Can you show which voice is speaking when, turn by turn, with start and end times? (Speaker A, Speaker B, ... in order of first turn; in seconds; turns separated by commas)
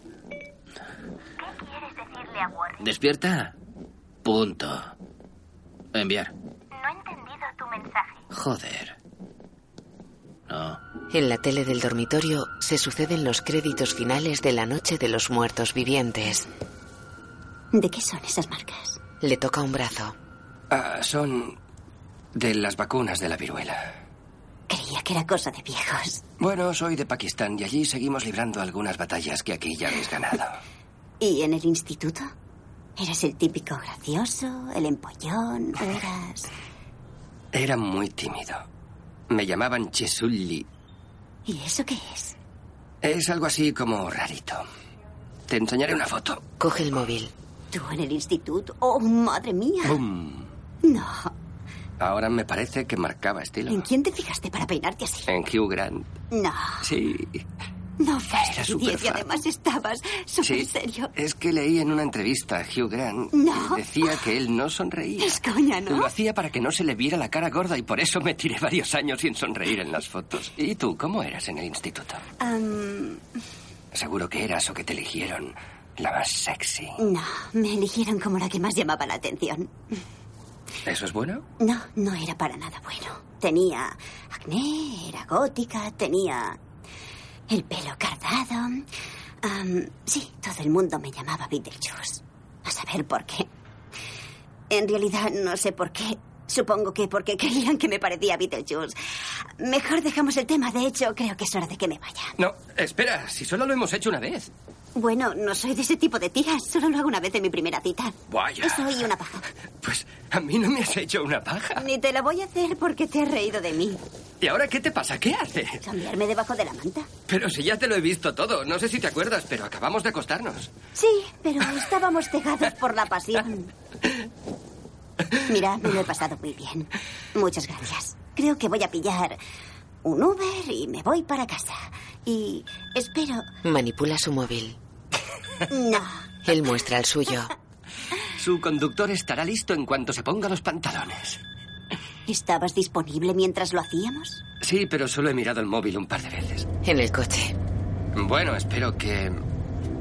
Speaker A: 1.6-2.7, Speaker B: 2.8-3.5, Speaker B: 4.2-4.9, Speaker B: 5.9-6.3, Speaker A: 6.8-8.1, Speaker B: 8.3-8.9, Speaker B: 10.5-10.8, Speaker C: 11.1-16.4, Speaker D: 17.7-19.0, Speaker C: 19.2-20.1, Speaker E: 20.7-21.6, Speaker E: 22.3-24.0, Speaker D: 24.7-26.2, Speaker E: 26.4-30.6, Speaker D: 31.2-32.3, Speaker D: 33.0-36.5, Speaker E: 37.5-38.6, Speaker E: 39.3-40.7, Speaker D: 41.5-42.4, Speaker E: 43.0-44.6, Speaker E: 45.5-46.4, Speaker C: 46.6-47.3, Speaker D: 47.7-50.0, Speaker E: 49.8-50.5, Speaker D: 50.8-51.3, Speaker E: 52.0-53.9, Speaker D: 53.7-55.3, Speaker E: 55.3-56.1, Speaker D: 56.3-56.8, Speaker E: 56.8-57.4, Speaker D: 58.0-61.1, Speaker E: 58.4-59.4, Speaker E: 60.4-72.2, Speaker D: 63.3-64.2, Speaker D: 65.2-66.1, Speaker D: 72.4-73.2, Speaker E: 73.9-77.0, Speaker D: 77.0-79.7, Speaker E: 80.8-81.4, Speaker D: 81.6-86.6, Speaker D: 87.5-88.9, Speaker D: 89.4-93.5, Speaker D: 94.7-98.9, Speaker D: 99.6-102.3, Speaker E: 102.4-104.5, Speaker D: 104.9-109.4, Speaker E: 108.3-109.1, Speaker E: 109.8-111.8, Speaker D: 111.8-114.0, Speaker E: 114.4-115.8, Speaker D: 115.8-117.1, Speaker E: 117.3-120.7, Speaker D: 121.0-123.7, Speaker D: 125.5-129.4, Speaker D: 130.0-133.5, Speaker C: 133.6-134.8, Speaker D: 135.7-136.2, Speaker C: 136.4-137.5, Speaker E: 138.4-141.4, Speaker D: 142.3-144.4, Speaker E: 144.6-146.7, Speaker C: 146.8-147.5, Speaker E: 148.1-149.4